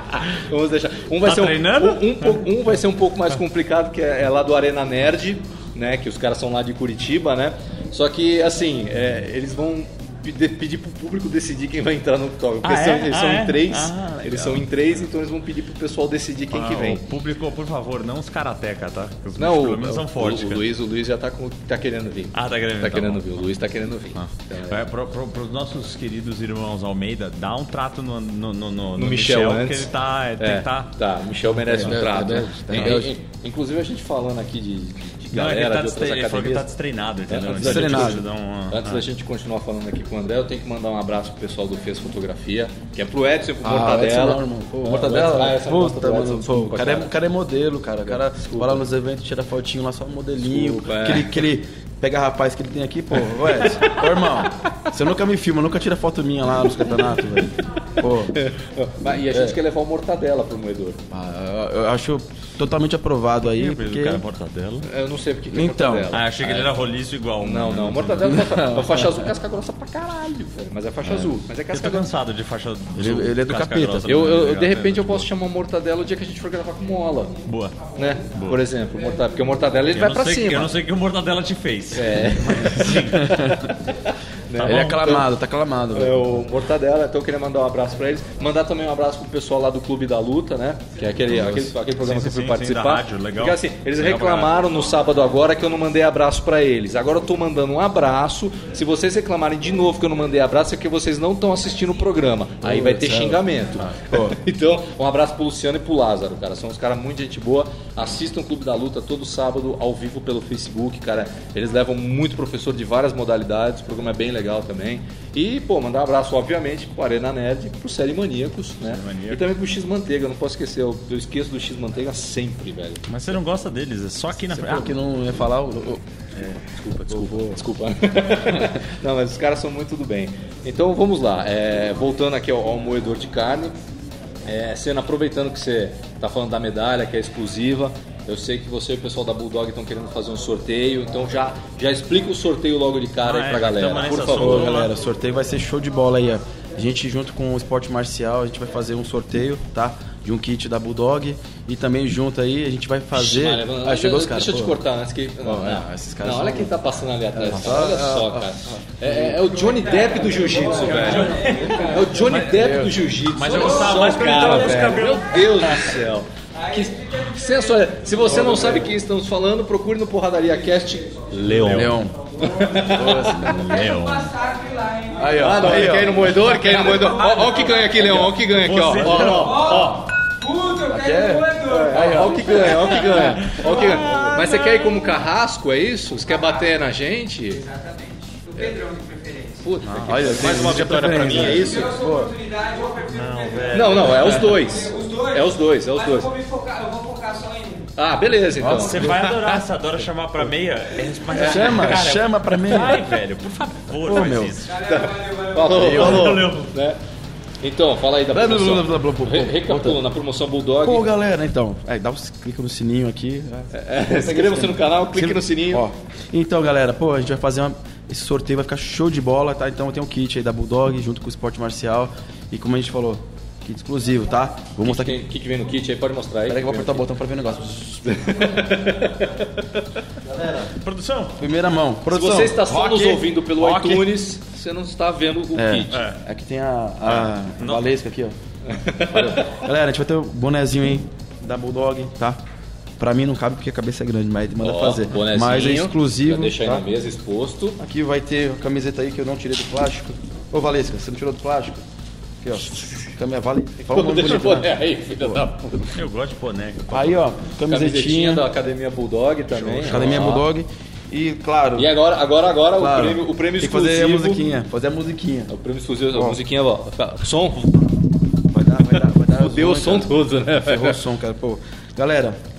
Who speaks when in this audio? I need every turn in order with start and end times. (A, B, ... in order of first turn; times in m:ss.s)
0:00.1-0:17.1 A
0:01.2-0:02.5 B
0:12.6-0:14.7 B
0:16.5-0:20.7 B
0:19.4-0:24.9 A
0:22.3-0:23.4 B
0:24.2-0:30.9 B
0:29.0-0:36.7 A
0:31.7-0:33.1 C
0:35.3-0:39.0 B
0:37.3-0:47.1 A
0:37.6-0:38.2 C
0:43.6-0:58.4 C
0:48.1-0:48.8 A
0:50.4-0:51.5 A
0:53.4-0:54.0 A
0:58.4-1:01.0 A
0:59.3-0:59.6 C
1:01.1-1:04.2 C
1:03.5-1:04.9 B
1:04.8-1:06.7 A
1:05.5-1:06.1 C
1:06.1-1:08.7 B
1:07.4-1:12.1 A
1:08.3-1:09.1 C
1:11.7-1:15.3 B
1:13.0-1:14.2 C
1:14.1-1:17.4 A
1:17.4-1:17.8 B
1:18.0-1:20.7 A
1:18.3-1:18.6 B
1:19.9-1:23.5 B
1:21.9-1:23.2 A
1:22.6-1:23.7 C
1:24.5-1:25.2 A
1:24.5-1:25.2 B
1:24.6-1:26.4 C
1:25.9-2:03.1 A
1:31.3-1:34.5 B
1:42.6-1:43.4 C
1:44.1-1:44.4 C
1:58.9-1:59.4 B
2:03.1-2:05.0 B
2:04.5-2:07.6 C
2:06.7-2:13.8 A
2:14.5-2:24.7 A
2:23.2-2:24.9 B
2:24.3-2:34.8 C
2:33.1-2:53.4 A
2:35.4-2:36.8 C
2:37.3-2:39.4 C
2:39.8-2:40.5 D
2:40.8-2:45.9 B
2:42.4-2:43.0 C
2:46.7-2:47.8 D
2:48.3-2:48.8 C
2:51.4-2:52.0 B
2:51.7-2:53.8 C
2:53.3-2:54.3 B
2:53.5-2:55.8 D
2:55.2-2:56.4 C
2:55.3-3:00.0 A
2:56.9-2:57.7 D
2:58.5-3:00.0 B
2:59.0-2:59.6 C
2:59.5-2:59.9 D
3:00.4-3:02.3 D
3:00.8-3:03.3 C
3:01.6-3:07.6 A
3:03.0-3:04.6 B
3:07.6-3:09.6 D
3:09.6-3:11.9 A
3:09.9-3:12.4 C
3:10.0-3:11.3 B
3:11.4-3:13.9 D
3:13.1-3:14.5 B
3:13.7-3:16.3 A
3:14.5-3:17.9 D
3:18.0-3:19.3 A
3:18.6-3:19.6 C
3:18.7-3:24.8 B
3:21.3-3:22.0 A
3:21.4-3:23.1 C
3:24.0-3:24.6 C
3:24.7-3:25.7 D
3:24.8-3:27.0 A
3:25.7-3:26.4 C
3:25.8-3:26.7 B
3:27.6-3:31.1 A
3:28.3-3:30.0 C
3:30.8-3:45.2 C
3:33.7-3:35.9 A
3:44.8-3:47.0 A
3:46.5-3:48.5 C
3:48.0-3:50.0 A
3:50.2-3:50.7 C
3:50.8-3:51.4 B
3:51.4-3:52.9 C
3:52.1-3:56.0 A
3:52.7-3:54.1 B
3:55.6-3:58.4 C
3:55.9-3:56.2 B
3:57.1-3:57.8 B
3:58.7-3:59.5 A
3:59.0-4:02.4 C
4:03.0-4:06.9 C
4:04.6-4:07.8 A
4:07.8-4:11.8 C
4:12.4-4:14.7 C
4:13.9-4:16.0 A
4:15.2-4:15.5 C
4:15.9-4:17.2 B
4:16.9-4:18.5 C
4:17.7-4:20.5 A
4:19.5-4:20.3 B
4:19.8-4:21.9 C
4:21.8-4:24.5 A
4:22.8-4:25.5 C
4:25.5-4:27.9 A
4:26.1-4:26.4 C
4:28.5-4:32.4 C
4:28.9-4:31.0 A